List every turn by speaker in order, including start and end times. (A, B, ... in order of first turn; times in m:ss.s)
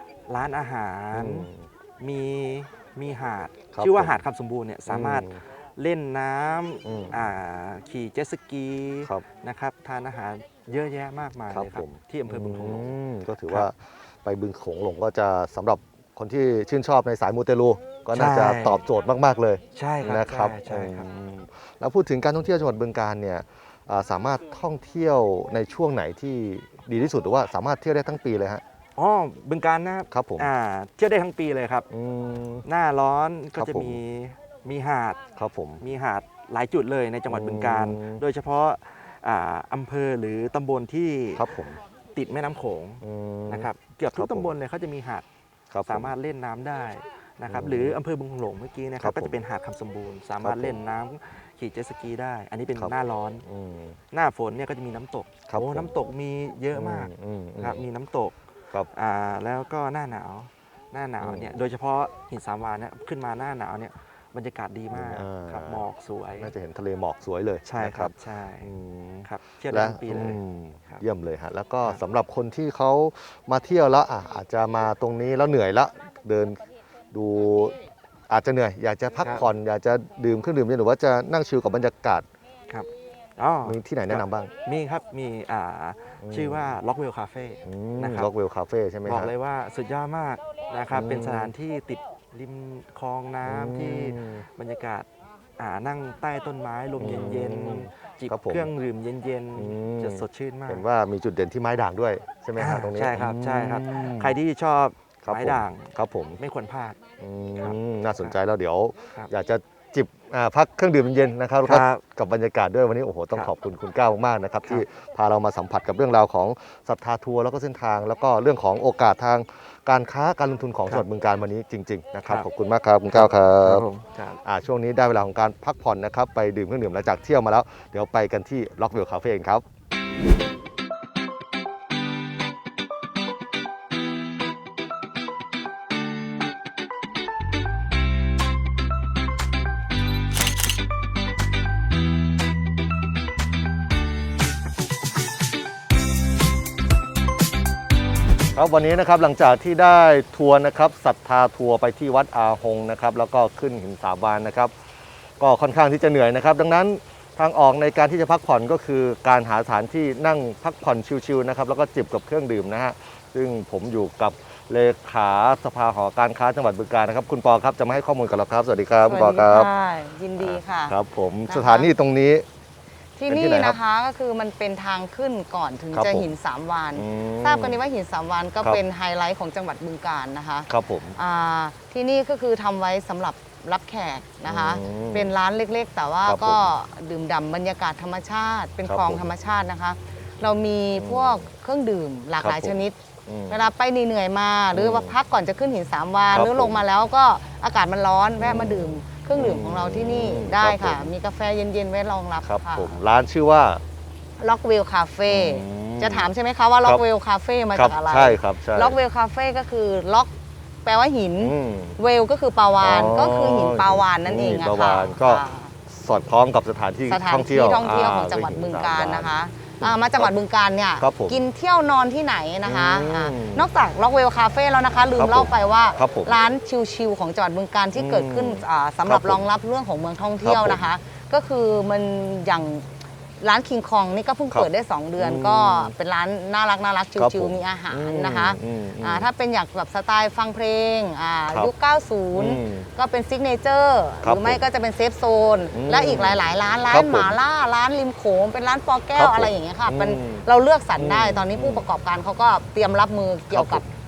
0:00.3-0:13.0 A
0:01.1-0:01.7 B
0:03.7-0:04.2 B
0:04.9-0:05.4 B
0:06.8-0:07.2 B
0:11.5-0:28.6 B
0:18.1-0:18.8 A
0:19.8-0:21.1 A
0:29.0-0:31.9 A
0:30.1-0:30.5 B
0:31.9-0:32.6 B
0:32.6-0:35.2 A
0:33.6-0:34.0 B
0:35.4-0:35.8 B
0:35.8-0:41.5 A
0:37.3-0:38.2 B
0:41.4-0:41.8 B
0:42.2-0:45.3 A
0:43.0-0:44.5 B
0:45.7-0:46.1 B
0:45.9-0:53.4 A
0:47.5-0:48.0 B
0:49.0-0:49.4 B
0:50.4-0:50.8 B
0:53.4-0:54.0 B
0:54.1-1:06.5 A
0:55.5-0:55.9 B
0:56.8-0:57.9 B
1:01.2-1:01.6 B
1:04.9-1:17.8 B
1:07.6-1:08.7 A
1:09.2-1:11.0 A
1:18.3-1:22.3 B
1:19.2-1:19.5 A
1:22.7-1:28.3 A
1:23.6-1:24.5 B
1:26.2-1:26.8 B
1:27.7-1:29.3 B
1:29.1-1:35.1 A
1:30.9-1:31.5 B
1:33.4-1:34.5 B
1:35.6-1:40.8 A
1:37.0-1:38.7 B
1:39.6-1:44.4 B
1:42.6-1:47.0 A
1:45.2-1:46.4 B
1:47.2-2:03.9 B
1:47.6-1:48.4 A
1:51.6-1:52.0 A
2:03.1-2:04.4 A
2:04.4-2:09.6 B
2:28.5-2:34.7 B
2:35.4-2:49.7 B
2:49.1-2:51.9 C
2:50.4-2:52.4 B
2:53.2-3:13.0 C
2:53.3-2:53.8 B
2:55.9-2:56.3 B
2:57.0-2:57.8 B
3:00.7-3:01.2 B
3:04.5-3:05.3 B
3:06.2-3:06.7 B
3:08.8-3:09.3 B
3:10.9-3:11.5 B
3:12.4-3:13.7 B
3:13.5-3:23.0 C
3:14.7-3:15.2 B
3:16.3-3:16.8 B
3:18.4-3:21.1 B
3:22.4-3:23.8 B
3:24.4-3:35.8 C
3:25.3-3:26.3 B
3:27.7-3:29.0 B
3:31.4-3:32.0 B
3:32.8-3:40.3 B
3:37.1-4:13.8 C
3:41.0-3:41.4 B
3:42.6-3:43.7 B
3:45.2-3:46.4 B
3:47.9-3:49.5 B
3:50.4-3:50.9 B
3:54.5-3:55.9 B
3:57.2-3:59.3 B
4:02.3-4:02.9 B
4:04.2-4:04.6 B
4:05.7-4:07.4 B
4:09.2-4:11.9 B
4:13.5-4:13.9 B